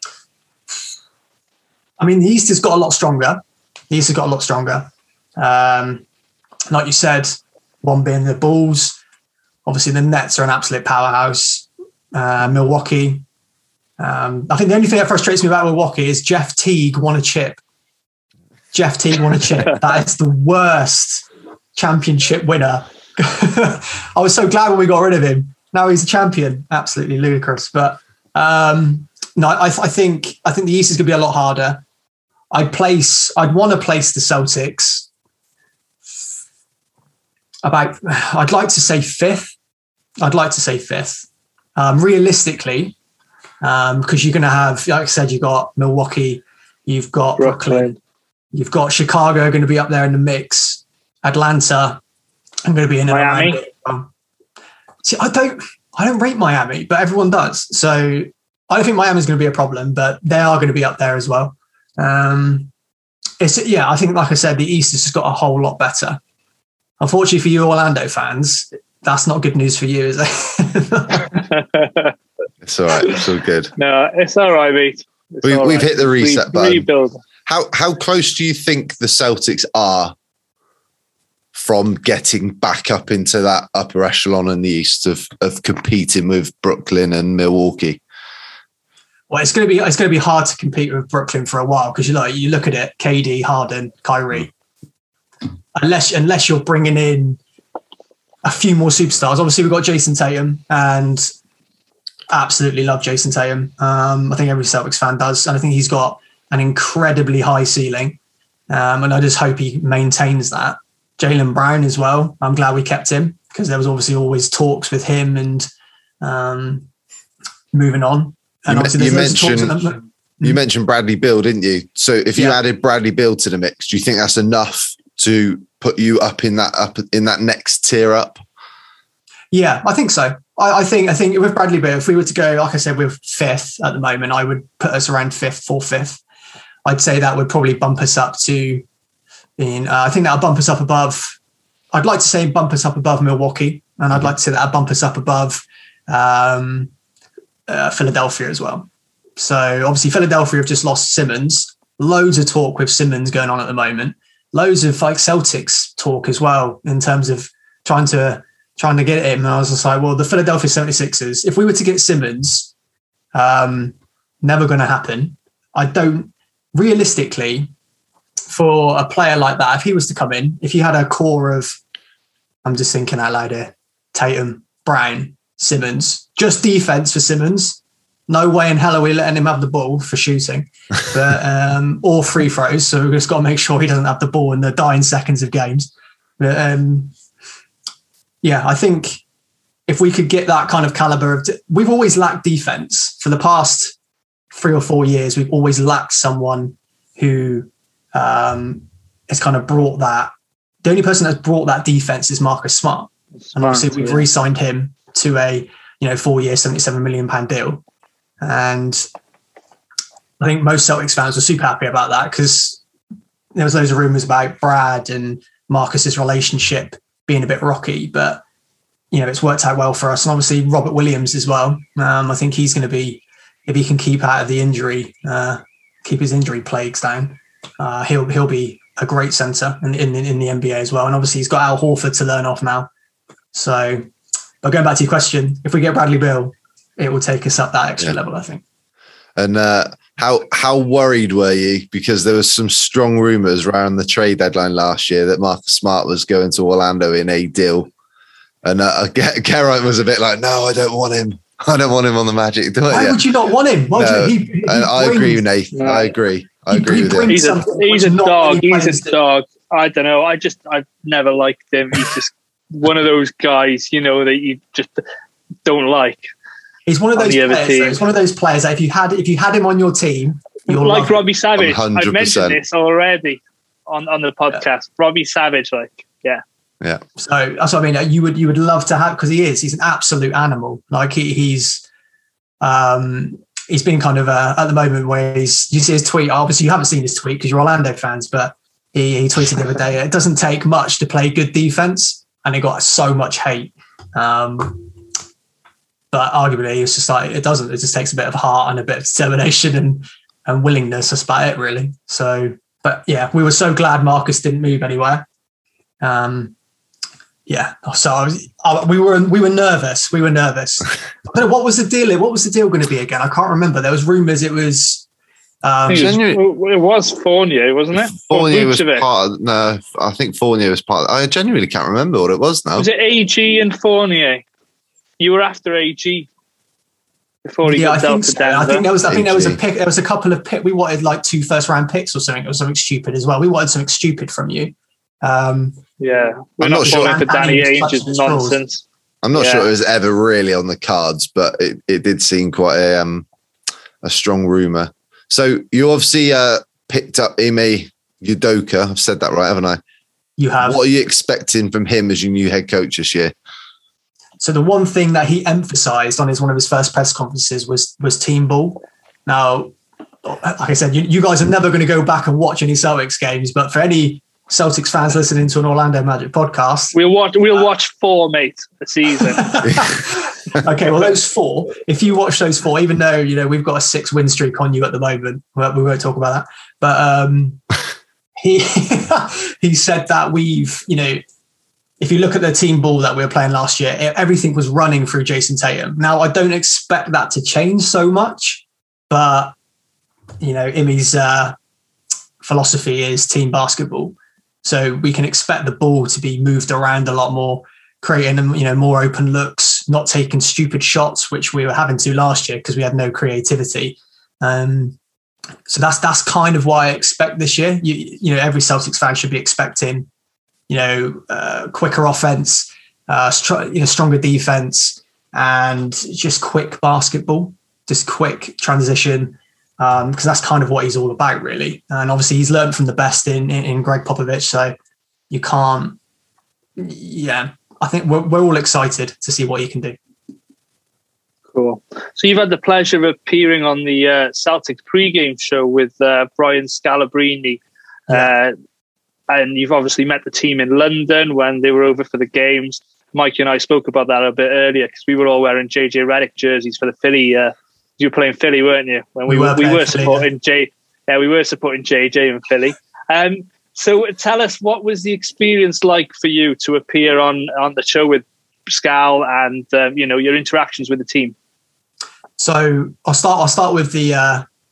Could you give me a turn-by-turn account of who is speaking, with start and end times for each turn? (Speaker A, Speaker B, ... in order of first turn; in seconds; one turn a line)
Speaker A: 2.0-6.0
Speaker A: 6.7-9.0
Speaker A: 9.7-13.2
Speaker A: 14.0-17.6
Speaker A: 18.7-31.8
Speaker A: 32.5-35.1
Speaker A: 37.6-39.5
Speaker A: 40.2-43.0
Speaker A: 43.6-47.9
Speaker B: 47.4-48.0
Speaker A: 48.5-52.0
Speaker A: 52.6-54.1
Speaker B: 53.1-53.6
Speaker A: 55.0-62.7
Speaker A: 63.4-66.2
Speaker A: 67.0-71.4
Speaker B: 71.5-72.1
Speaker C: 72.6-73.7
Speaker B: 73.8-77.2
Speaker C: 75.4-76.9
Speaker C: 77.5-80.1
Speaker C: 81.5-88.0
Speaker A: 89.3-94.5
Speaker A: 95.8-97.4
Speaker A: 98.4-101.3
Speaker A: 102.3-108.2
Speaker A: 108.7-115.7
Speaker A: 116.2-116.9
Speaker A: 117.7-120.6
Speaker C: 118.7-119.8
Speaker C: 120.4-128.4
Speaker A: 129.5-136.2
Speaker A: 136.8-138.8
Speaker A: 139.6-141.4
Speaker A: 141.9-146.9
Speaker A: 147.7-162.7
Speaker A: 163.3-167.7
Speaker A: 168.5-171.8
Speaker A: 172.7-187.1
Speaker A: 188.4-189.2
Speaker A: 189.9-193.9
Speaker A: 194.5-200.3
Speaker A: 200.8-207.8
Speaker B: 203.5-204.2
Speaker A: 208.4-209.1
Speaker A: 210.4-212.8
Speaker A: 213.6-218.4
Speaker A: 219.1-232.9
Speaker A: 233.5-234.1
Speaker A: 234.6-238.6
Speaker C: 239.4-247.9
Speaker C: 248.6-253.3
Speaker A: 252.9-255.4
Speaker C: 253.9-257.4
Speaker B: 255.7-256.1
Speaker A: 256.7-259.2
Speaker B: 257.2-265.0
Speaker B: 265.7-266.3
Speaker A: 266.9-271.2
Speaker B: 267.1-268.0
Speaker B: 270.7-276.4
Speaker C: 271.6-272.6
Speaker A: 277.2-281.8
Speaker A: 282.6-294.9
Speaker A: 296.1-305.2
Speaker A: 306.0-306.5
Speaker A: 307.5-315.1
Speaker A: 315.6-316.2
Speaker C: 315.9-316.4
Speaker B: 315.9-319.1
Speaker C: 318.0-322.9
Speaker B: 322.8-324.4
Speaker B: 325.2-326.3
Speaker B: 327.4-328.9
Speaker A: 327.6-335.8
Speaker C: 329.1-329.6
Speaker B: 336.0-339.7
Speaker C: 336.6-337.3
Speaker A: 336.8-338.6
Speaker C: 339.2-343.3
Speaker C: 344.0-349.8
Speaker A: 350.4-350.8
Speaker C: 350.6-353.3
Speaker A: 354.4-366.9
Speaker B: 366.9-369.5
Speaker A: 369.4-377.6
Speaker C: 369.6-369.9
Speaker A: 378.4-381.2
Speaker A: 382.0-389.5
Speaker A: 390.4-391.6
Speaker A: 392.4-405.0
Speaker A: 405.7-410.1
Speaker A: 410.7-424.8
Speaker A: 425.3-426.0
Speaker A: 426.8-430.0
Speaker B: 431.5-438.5
Speaker B: 439.3-461.4
Speaker A: 449.3-450.3
Speaker A: 462.4-464.4